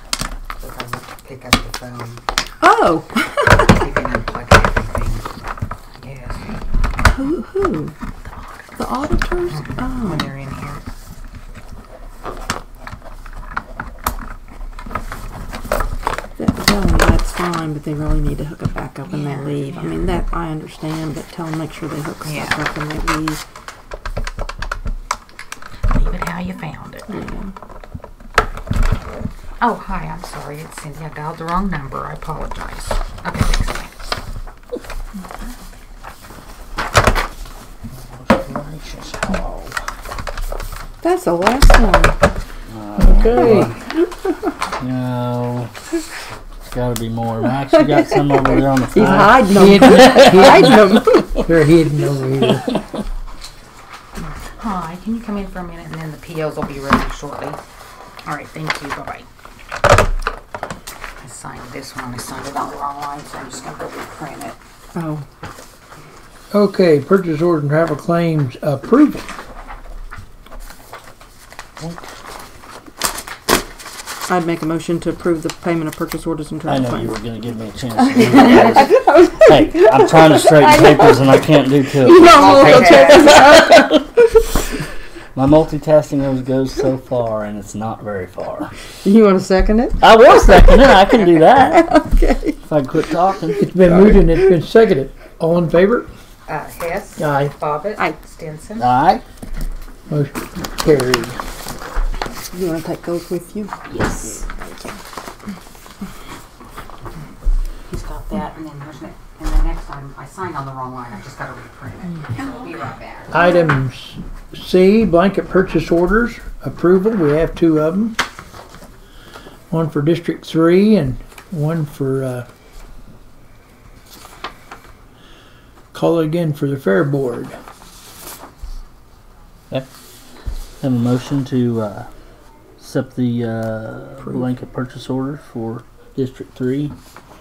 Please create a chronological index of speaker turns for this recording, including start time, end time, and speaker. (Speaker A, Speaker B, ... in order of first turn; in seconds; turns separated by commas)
Speaker A: 0.6-2.2, Speaker B: 2.6-3.7, Speaker A: 3.6-5.3, Speaker A: 6.0-6.4, Speaker B: 7.1-7.9, Speaker A: 8.3-8.7, Speaker B: 8.8-10.3, Speaker A: 9.5-10.8, Speaker B: 16.4-23.4, Speaker A: 19.1-20.0, Speaker A: 22.2-22.6, Speaker A: 25.9-27.1, Speaker B: 27.1-27.5, Speaker A: 29.6-33.9, Speaker C: 38.2-39.8, Speaker B: 41.0-42.2, Speaker C: 42.7-43.7, Speaker D: 43.0-43.8, Speaker C: 44.8-45.7, Speaker C: 46.6-51.0, Speaker B: 47.8-51.4, Speaker D: 49.0-52.7, Speaker A: 54.6-57.6, Speaker A: 58.2-59.2, Speaker A: 61.2-64.6, Speaker B: 64.9-65.2, Speaker D: 66.5-69.2, Speaker B: 74.3-77.1, Speaker C: 76.7-83.8, Speaker B: 78.0-81.4, Speaker B: 82.0-84.5, Speaker A: 82.1-83.7, Speaker C: 85.3-88.7, Speaker B: 89.0-92.6, Speaker C: 90.0-91.9, Speaker C: 92.7-93.6, Speaker D: 93.6-96.1, Speaker B: 93.9-94.4, Speaker A: 96.5-98.9, Speaker D: 97.2-97.5, Speaker C: 98.8-99.2, Speaker D: 100.1-101.4, Speaker B: 102.5-105.0, Speaker A: 107.9-113.3, Speaker D: 113.3-118.2, Speaker D: 119.7-122.5, Speaker D: 125.9-127.6, Speaker C: 130.8-132.1, Speaker C: 132.8-136.9